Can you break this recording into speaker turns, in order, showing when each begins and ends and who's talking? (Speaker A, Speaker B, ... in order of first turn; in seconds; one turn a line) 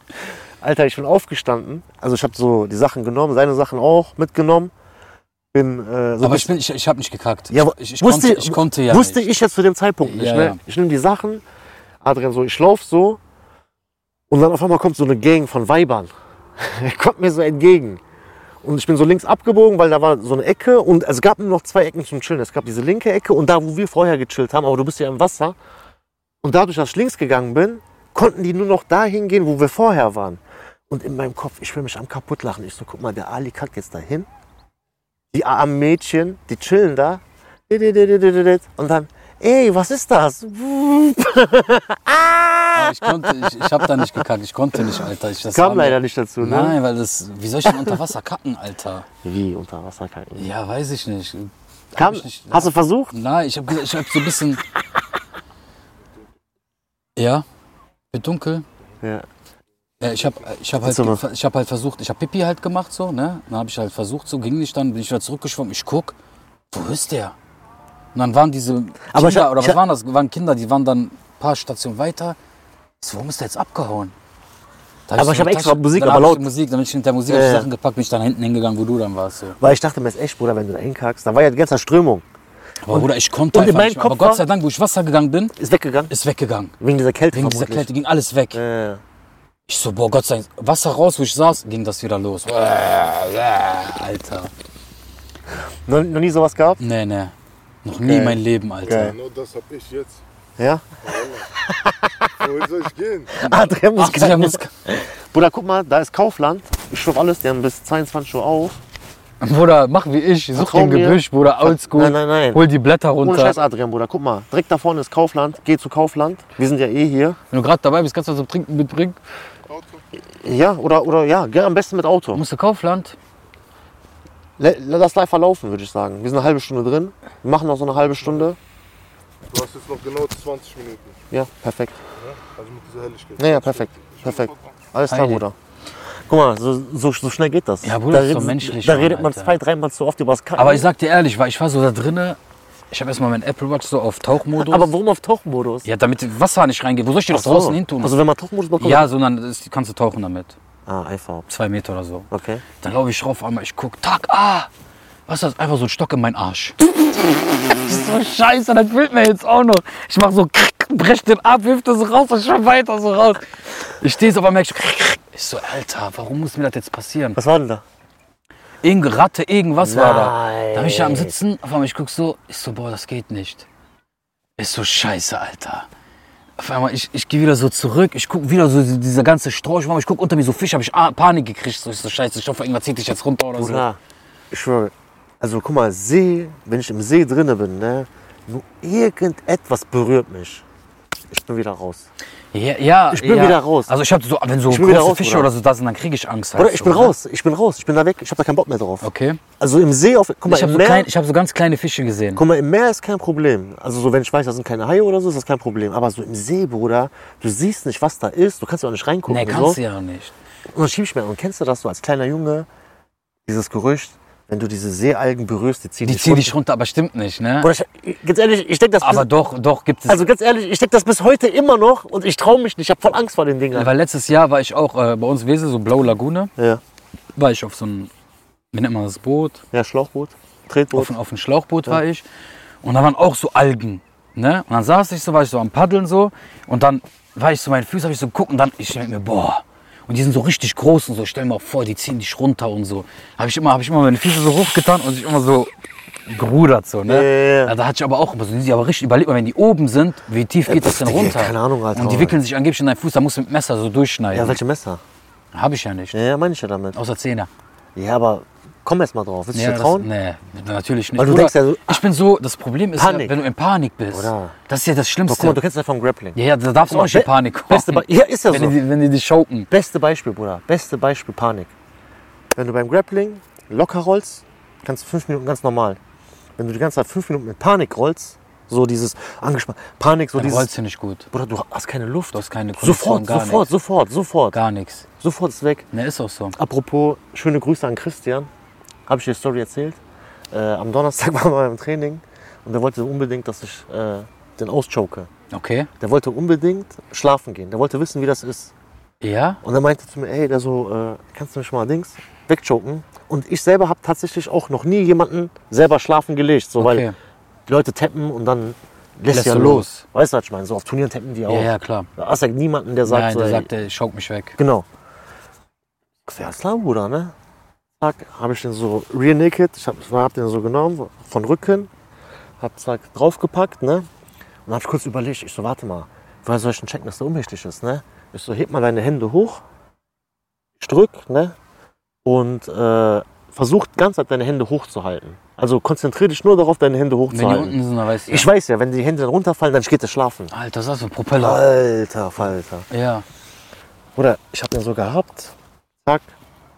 Speaker A: 0.6-4.7
Speaker A: 5.5-6.5
Speaker B: 6.2-9.3
Speaker A: 7.5-11.4
Speaker B: 10.0-10.6
Speaker A: 12.0-13.2
Speaker A: 14.3-18.0
Speaker A: 18.6-25.6
Speaker A: 26.4-34.3
Speaker A: 35.3-44.2
Speaker B: 42.7-49.1
Speaker A: 44.7-46.8
Speaker A: 47.7-47.9
Speaker A: 49.2-50.5
Speaker B: 50.4-54.6
Speaker A: 52.0-53.1
Speaker B: 57.2-57.4
Speaker B: 58.1-58.6
Speaker B: 60.0-66.2
Speaker A: 60.8-61.2
Speaker B: 66.7-67.3
Speaker B: 68.1-72.4
Speaker A: 69.1-69.8
Speaker B: 73.0-74.1
Speaker B: 75.1-79.6
Speaker A: 75.2-76.5
Speaker A: 77.3-77.7
Speaker A: 79.6-82.2
Speaker B: 82.8-85.6
Speaker A: 82.9-84.4
Speaker A: 85.6-86.1
Speaker B: 86.1-86.7
Speaker A: 86.8-87.9
Speaker B: 87.3-88.6
Speaker A: 88.5-89.0
Speaker B: 89.7-94.5
Speaker A: 95.8-96.8
Speaker B: 96.8-99.2
Speaker A: 98.0-99.2
Speaker C: 98.8-100.2
Speaker A: 100.6-100.9
Speaker C: 101.0-101.5
Speaker A: 101.4-102.5
Speaker C: 102.4-103.4
Speaker A: 103.3-108.8
Speaker B: 103.9-104.7
Speaker B: 109.4-113.6
Speaker A: 110.5-112.6
Speaker A: 113.2-117.4
Speaker B: 117.5-119.2
Speaker C: 119.7-120.0
Speaker A: 120.4-122.4
Speaker B: 122.3-123.2
Speaker A: 124.6-128.6
Speaker C: 129.5-131.2
Speaker A: 131.3-132.0
Speaker C: 132.2-134.7
Speaker A: 133.4-135.5
Speaker B: 135.1-135.4
Speaker A: 136.3-140.8
Speaker B: 137.8-139.6
Speaker B: 140.6-142.4
Speaker B: 142.9-144.9
Speaker A: 144.5-145.9
Speaker B: 145.8-148.2
Speaker A: 147.3-149.1
Speaker B: 148.8-150.5
Speaker A: 150.8-151.5
Speaker B: 151.5-154.7
Speaker A: 152.3-152.6
Speaker B: 155.3-163.5
Speaker B: 164.0-167.4
Speaker A: 167.3-167.8
Speaker B: 168.8-173.7
Speaker A: 169.8-171.3
Speaker B: 174.6-175.9
Speaker B: 176.6-183.9
Speaker A: 183.6-184.0
Speaker A: 184.5-190.6
Speaker A: 191.3-192.1
Speaker B: 192.5-197.1
Speaker A: 193.1-193.9
Speaker A: 194.7-195.5
Speaker A: 196.6-201.1
Speaker B: 199.0-199.4
Speaker B: 200.5-202.4
Speaker A: 202.3-209.8
Speaker B: 209.3-210.3
Speaker A: 210.7-212.7
Speaker A: 213.4-216.5
Speaker B: 216.0-217.7
Speaker A: 217.6-219.3
Speaker B: 219.0-220.2
Speaker A: 220.1-223.9
Speaker B: 223.7-226.5
Speaker B: 227.3-228.1
Speaker B: 228.7-229.6
Speaker A: 229.7-231.1
Speaker B: 230.9-232.2
Speaker B: 232.8-245.7
Speaker B: 246.3-254.6
Speaker A: 247.1-247.7
Speaker A: 250.7-252.4
Speaker A: 254.3-255.0
Speaker B: 255.5-256.2
Speaker A: 256.1-256.9
Speaker B: 256.9-257.5
Speaker A: 257.9-260.1
Speaker B: 259.5-265.6
Speaker A: 261.2-262.0
Speaker A: 263.0-263.3
Speaker A: 264.1-264.5
Speaker A: 265.2-268.8
Speaker B: 266.3-269.7
Speaker A: 269.7-271.7
Speaker A: 272.5-276.0
Speaker A: 276.6-280.7
Speaker B: 280.3-281.3
Speaker A: 281.3-284.6
Speaker B: 282.3-283.7
Speaker B: 284.5-285.0
Speaker A: 285.2-285.9
Speaker B: 285.9-286.6
Speaker A: 286.6-288.5
Speaker A: 289.1-290.0
Speaker A: 290.5-295.3
Speaker B: 295.5-295.9
Speaker A: 296.0-298.7
Speaker B: 299.2-299.6
Speaker A: 299.6-307.1
Speaker B: 306.8-307.1
Speaker A: 307.7-313.7
Speaker B: 309.3-310.1
Speaker B: 311.5-312.1
Speaker B: 313.1-314.6
Speaker A: 314.6-314.9
Speaker A: 316.2-317.3
Speaker A: 318.0-321.9
Speaker A: 322.6-324.1
Speaker A: 324.6-329.6
Speaker A: 330.8-331.6
Speaker A: 332.2-340.5
Speaker B: 337.3-338.5
Speaker B: 340.5-341.6
Speaker A: 341.3-342.9
Speaker B: 342.9-343.2
Speaker A: 344.1-346.3